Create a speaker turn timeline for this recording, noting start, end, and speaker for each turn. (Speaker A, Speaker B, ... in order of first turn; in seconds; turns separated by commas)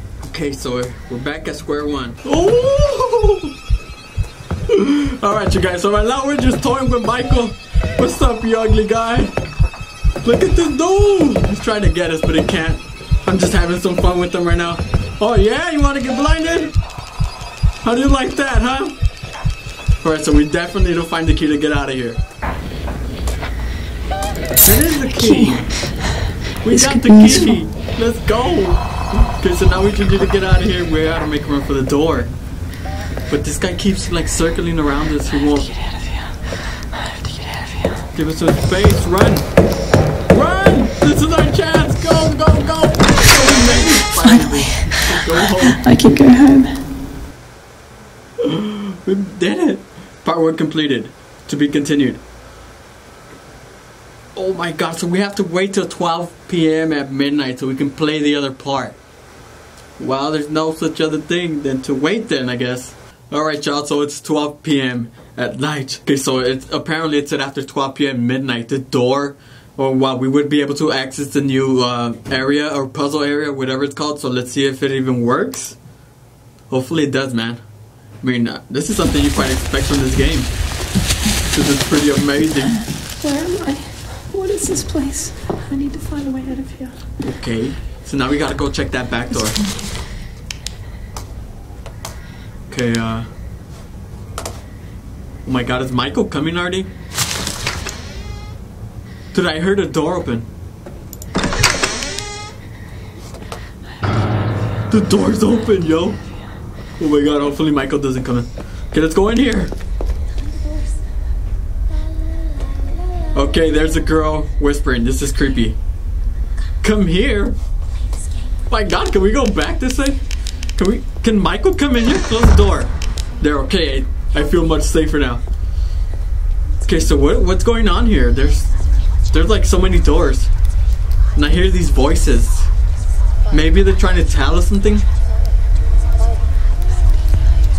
Speaker A: 0.2-3.5, Speaker A: 4.7-9.3, Speaker A: 10.2-16.8, Speaker A: 17.8-19.0, Speaker A: 20.0-22.2, Speaker A: 24.6-25.8, Speaker B: 25.2-25.6, Speaker A: 26.6-32.3, Speaker B: 26.7-27.5, Speaker A: 33.3-35.7, Speaker B: 37.3-38.0, Speaker A: 38.1-39.5, Speaker A: 40.3-45.9, Speaker B: 44.4-46.8, Speaker A: 48.4-52.2, Speaker A: 54.4-59.0, Speaker A: 60.0-75.8, Speaker A: 76.7-77.6, Speaker A: 78.2-80.5, Speaker A: 81.5-82.8, Speaker B: 83.2-87.0, Speaker A: 87.2-89.6, Speaker A: 92.7-93.3, Speaker A: 95.4-96.9, Speaker A: 99.3-100.5, Speaker A: 104.9-106.2, Speaker A: 107.0-109.7, Speaker A: 113.3-115.8, Speaker A: 116.8-117.6, Speaker A: 118.7-120.2, Speaker A: 120.8-125.4, Speaker A: 126.8-128.7, Speaker A: 129.3-130.5, Speaker A: 131.3-132.7, Speaker A: 133.5-135.1